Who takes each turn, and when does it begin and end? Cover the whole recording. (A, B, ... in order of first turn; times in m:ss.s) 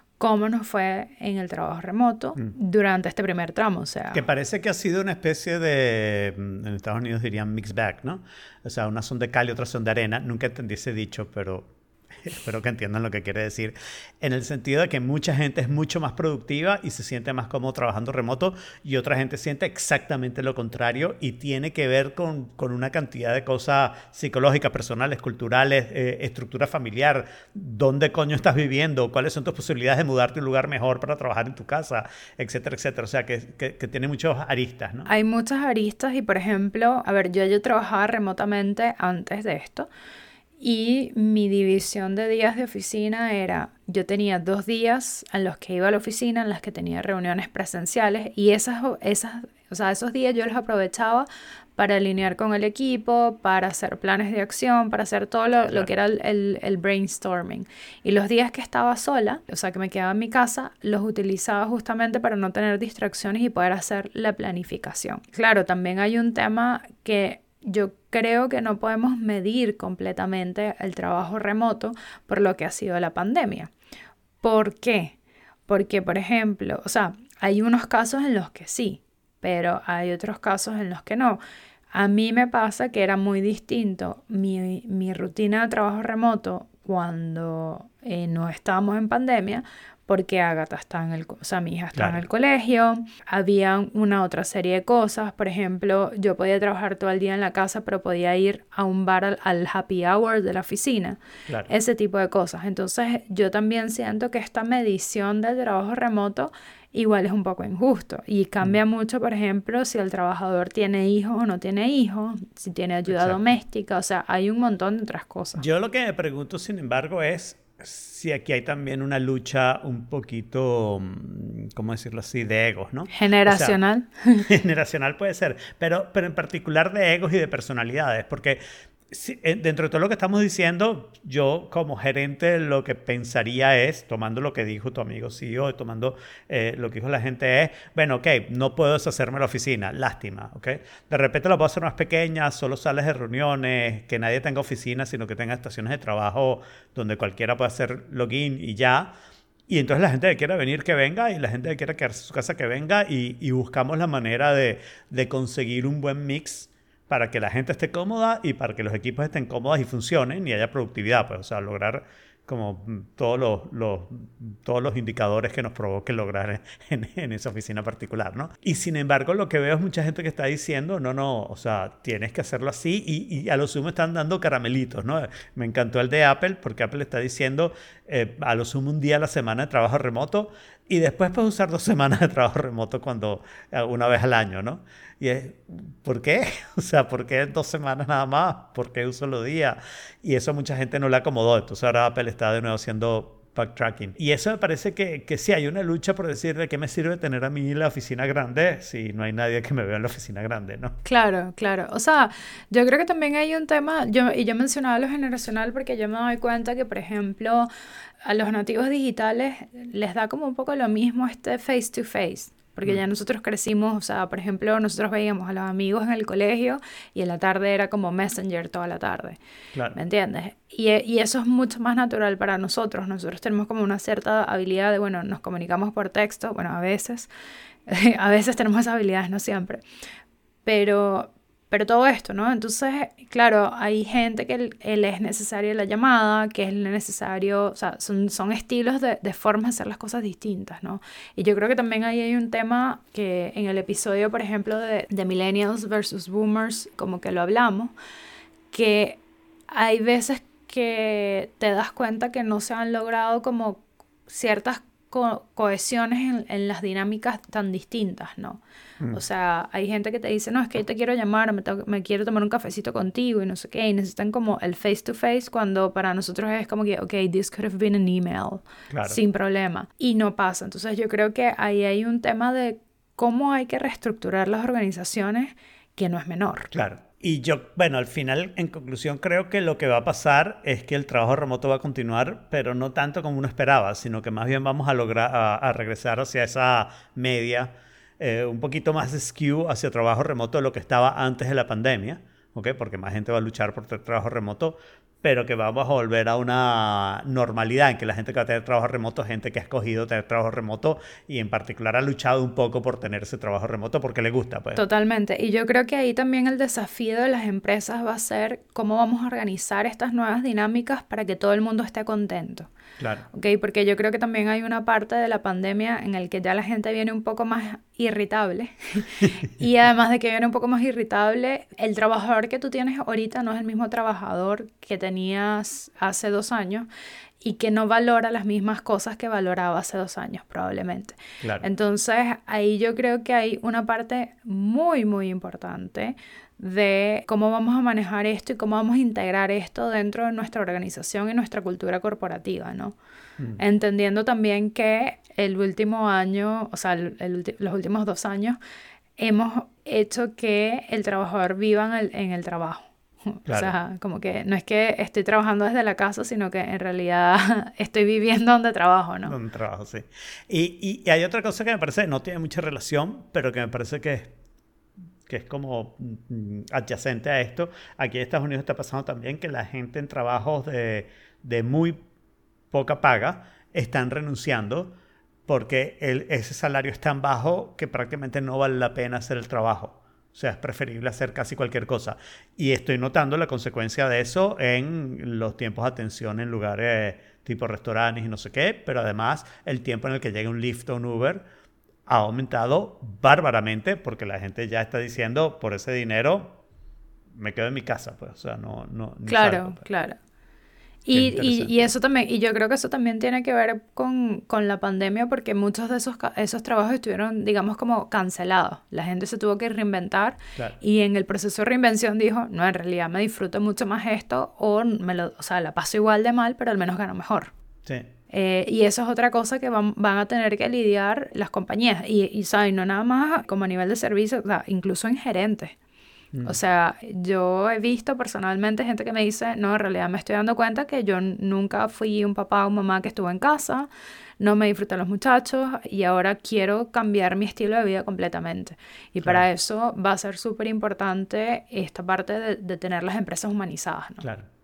0:00.2-0:04.2 A
0:04.1-0:11.7 B
0:12.2-0:35.1 B
0:35.1-0:39.9 A
0:40.6-1:13.7 A
1:14.4-1:15.2 A
1:15.7-1:21.4 A
1:21.9-1:55.6 A
1:31.9-1:32.2 B
1:53.1-1:53.4 B
1:55.6-2:03.8 B
2:03.1-2:04.5 A
2:04.5-2:29.1 B
2:29.7-3:21.0 B
3:21.0-3:27.7 A
3:28.2-3:39.4 A
3:39.9-3:47.3 A
3:47.9-3:49.8 A
3:50.6-4:07.9 A
4:08.7-4:36.7 A
4:28.9-4:29.2 B
4:36.7-5:04.8 B
5:04.8-5:12.7 A
5:13.0-5:13.2 B
5:13.3-5:26.9 A
5:27.4-5:43.0 A
5:31.4-5:31.6 B
5:43.6-5:48.6 A
5:49.2-5:59.3 A
5:53.5-5:53.7 B
5:59.2-6:04.3 B
6:05.2-6:12.0 B
6:12.7-6:14.9 B
6:15.5-6:31.4 B
6:32.1-6:36.6 B
6:37.3-6:39.8 B
6:39.3-6:40.2 A
6:41.0-6:57.5 A
6:41.1-6:41.9 B
6:57.8-6:58.1 B
6:58.3-7:05.8 A
7:06.4-7:13.9 A
7:14.4-7:24.2 A
7:19.2-7:19.4 B
7:24.2-7:24.5 B